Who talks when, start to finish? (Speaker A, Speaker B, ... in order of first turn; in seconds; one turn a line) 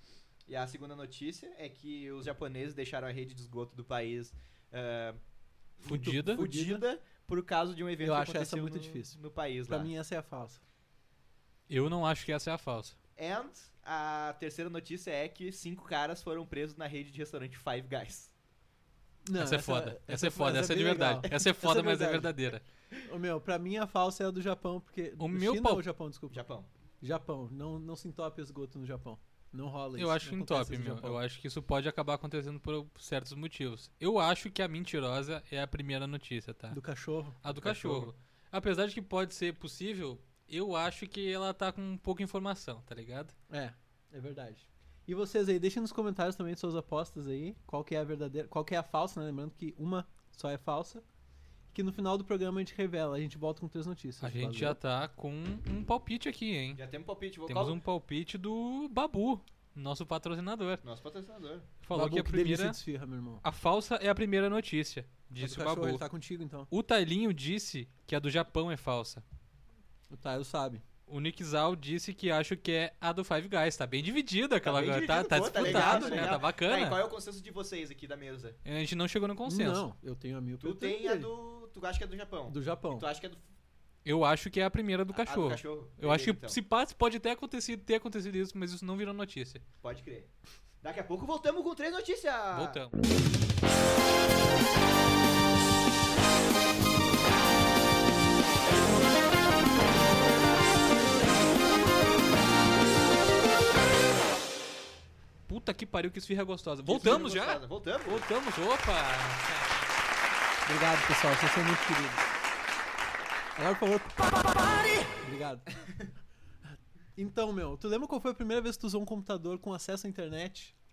Speaker A: 0.5-5.2
Speaker A: 5.8-9.9
Speaker B: 5.8-6.4
Speaker C: 5.9-6.8
Speaker C: 8.0-10.6
Speaker B: 11.7-13.0
Speaker A: 13.2-18.3
Speaker C: 19.2-22.4
Speaker B: 19.4-22.6
Speaker C: 23.1-26.4
Speaker B: 25.2-25.9
Speaker A: 26.3-26.7
Speaker C: 27.0-31.2
Speaker B: 30.0-36.8
Speaker C: 36.7-38.1
Speaker B: 37.4-43.4
Speaker C: 43.5-51.0
Speaker C: 51.7-54.8
Speaker B: 54.2-56.8
Speaker A: 56.8-57.8
Speaker B: 57.5-60.8
Speaker A: 60.8-61.7
Speaker B: 61.8-62.8
Speaker C: 61.9-63.4
Speaker B: 63.4-66.1
Speaker C: 65.4-66.7
Speaker B: 66.7-69.2
Speaker C: 70.1-70.8
Speaker B: 71.1-77.0
Speaker A: 74.6-78.6
Speaker C: 75.5-76.4
Speaker B: 78.7-79.8
Speaker C: 79.5-81.3
Speaker A: 80.6-83.4
Speaker C: 82.5-83.1
Speaker B: 84.0-89.6
Speaker A: 85.1-86.6
Speaker A: 89.8-90.3
Speaker A: 90.8-92.8
Speaker B: 92.5-93.0
Speaker B: 105.5-109.9
Speaker A: 106.8-108.3
Speaker C: 110.7-112.3
Speaker C: 113.6-115.7
Speaker A: 115.8-116.1
Speaker C: 117.2-120.7